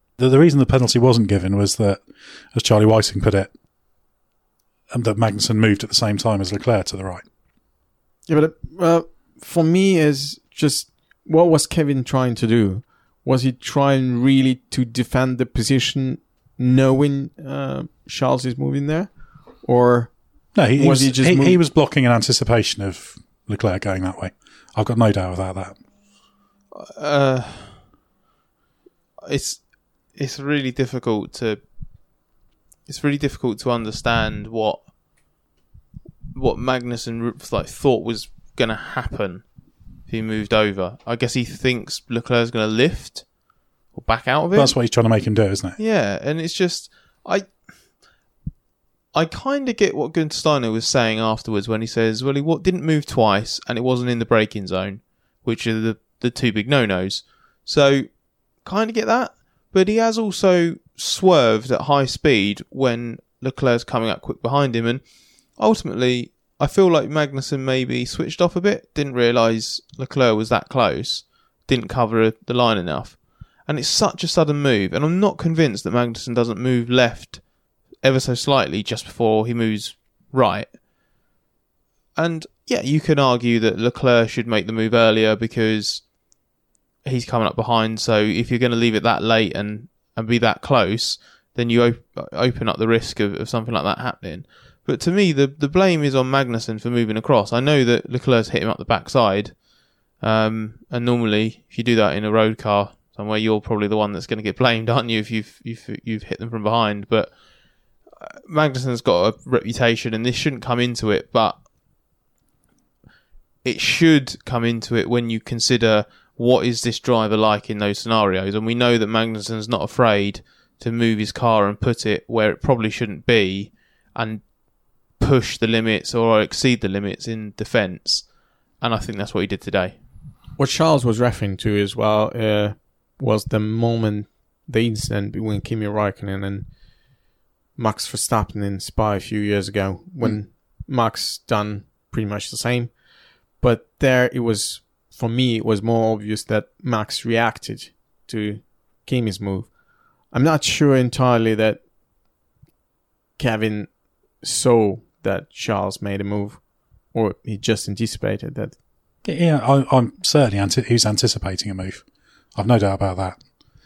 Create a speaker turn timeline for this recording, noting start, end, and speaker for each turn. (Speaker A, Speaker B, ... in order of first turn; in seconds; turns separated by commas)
Speaker A: 0.2-2.0, Speaker A: 2.5-3.5, Speaker A: 4.9-7.2, Speaker B: 8.3-21.6, Speaker A: 20.5-25.8, Speaker C: 26.7-27.8, Speaker C: 29.2-29.6, Speaker C: 30.1-31.6, Speaker C: 32.9-34.8, Speaker C: 36.3-39.4, Speaker C: 40.1-43.2, Speaker C: 43.9-44.7, Speaker A: 44.5-45.8, Speaker C: 45.8-47.5, Speaker C: 49.1-58.1, Speaker C: 58.6-65.0, Speaker C: 65.6-77.4, Speaker C: 78.0-80.7, Speaker C: 82.2-86.0, Speaker C: 87.0-99.5, Speaker C: 100.2-107.3, Speaker C: 108.2-111.6, Speaker C: 113.6-124.4, Speaker C: 125.2-130.0, Speaker B: 130.6-136.7, Speaker B: 137.8-151.8, Speaker B: 153.4-158.8, Speaker A: 159.2-162.0, Speaker A: 162.5-163.4